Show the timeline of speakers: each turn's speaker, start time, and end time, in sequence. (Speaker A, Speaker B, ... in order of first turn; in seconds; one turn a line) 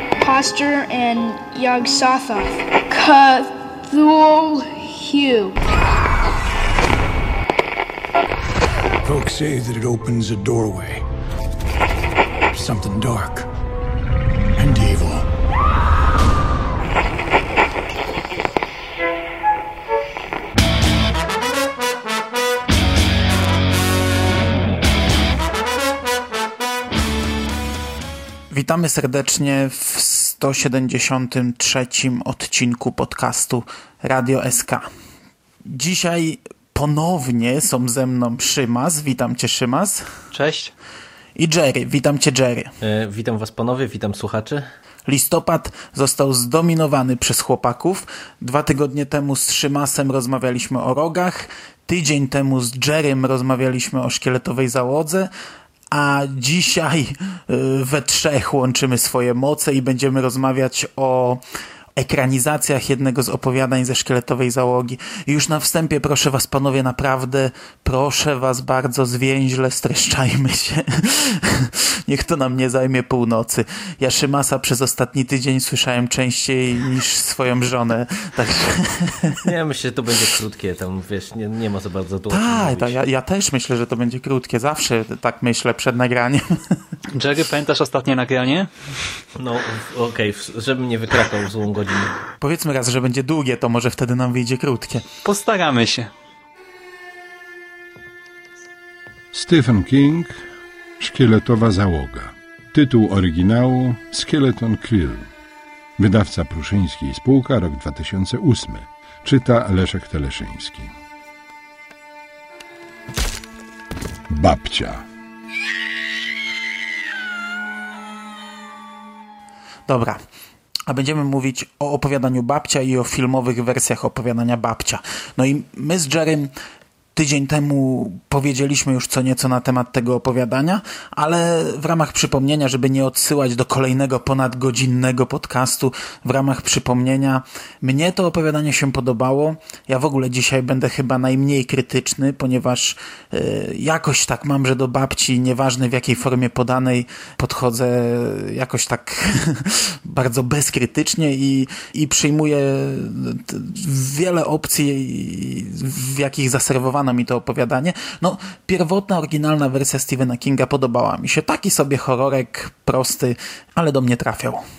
Speaker A: 0.2-5.6
Speaker B: 9.0-11.0
Speaker B: 12.5-13.5
Speaker B: 14.6-15.3
Speaker C: 28.5-34.9
Speaker C: 35.6-40.1
Speaker D: 40.3-40.7
Speaker C: 41.4-42.7
Speaker E: 42.8-44.6
Speaker C: 45.1-55.3
Speaker C: 55.9-61.4
Speaker C: 62.0-79.4
Speaker E: 79.4-82.9
Speaker C: 82.3-86.8
Speaker D: 87.1-88.7
Speaker E: 89.4-92.2
Speaker C: 92.4-95.0
Speaker D: 95.2-96.1
Speaker F: 99.3-100.4
Speaker F: 101.0-105.3
Speaker F: 106.0-110.9
Speaker F: 114.3-115.0
Speaker C: 119.9-120.2
Speaker C: 120.9-126.5
Speaker C: 127.1-164.6